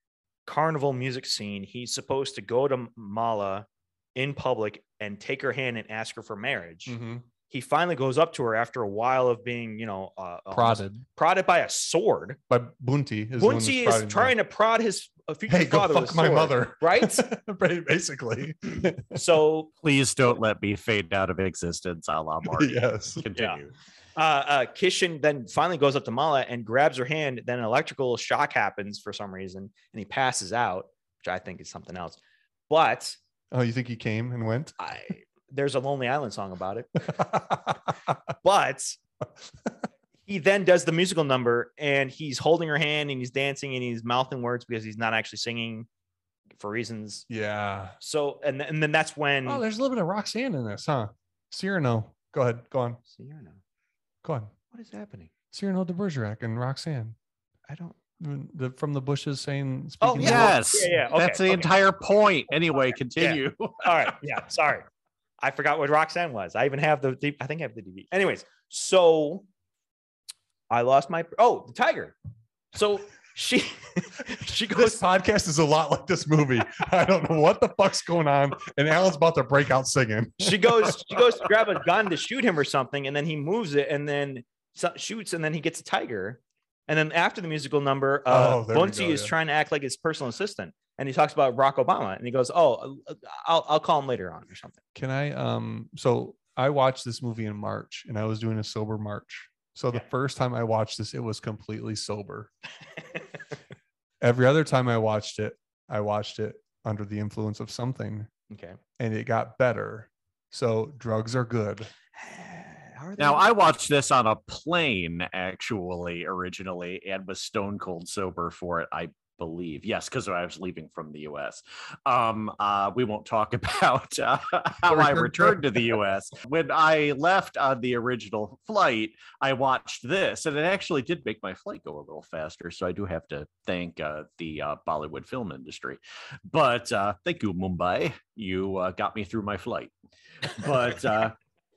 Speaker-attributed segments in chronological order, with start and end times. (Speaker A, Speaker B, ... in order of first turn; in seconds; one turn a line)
Speaker A: 0.5-7.0
Speaker B: 6.9-7.3
Speaker A: 7.5-12.4
Speaker B: 10.5-11.0
Speaker B: 12.5-14.3
Speaker A: 13.4-17.3
Speaker B: 15.5-19.2
Speaker A: 19.1-19.7
Speaker C: 19.8-23.7
Speaker B: 22.5-23.2
Speaker A: 24.2-33.2
Speaker B: 33.5-34.8
Speaker A: 34.8-37.1
Speaker B: 37.1-37.8
Speaker A: 38.4-39.0
Speaker A: 40.3-45.9
Speaker A: 46.6-47.3
Speaker B: 47.3-48.0
Speaker A: 48.0-49.6
Speaker B: 49.5-53.0
Speaker A: 53.1-53.6
Speaker B: 54.2-54.5
Speaker A: 54.7-55.3
Speaker B: 55.5-57.2
Speaker A: 57.7-58.0
Speaker B: 58.2-60.6
Speaker A: 60.0-61.7
Speaker C: 60.2-64.1
Speaker A: 63.2-64.9
Speaker A: 65.4-69.5
Speaker A: 70.7-72.2
Speaker A: 72.7-75.0
Speaker B: 74.7-81.2
Speaker A: 80.4-94.8
Speaker B: 88.3-89.3
Speaker B: 95.0-102.5
Speaker B: 104.2-108.3
Speaker A: 108.5-108.8
Speaker B: 109.0-111.9
Speaker A: 112.2-113.6
Speaker C: 113.2-139.9
Speaker B: 124.9-125.9
Speaker C: 140.4-141.3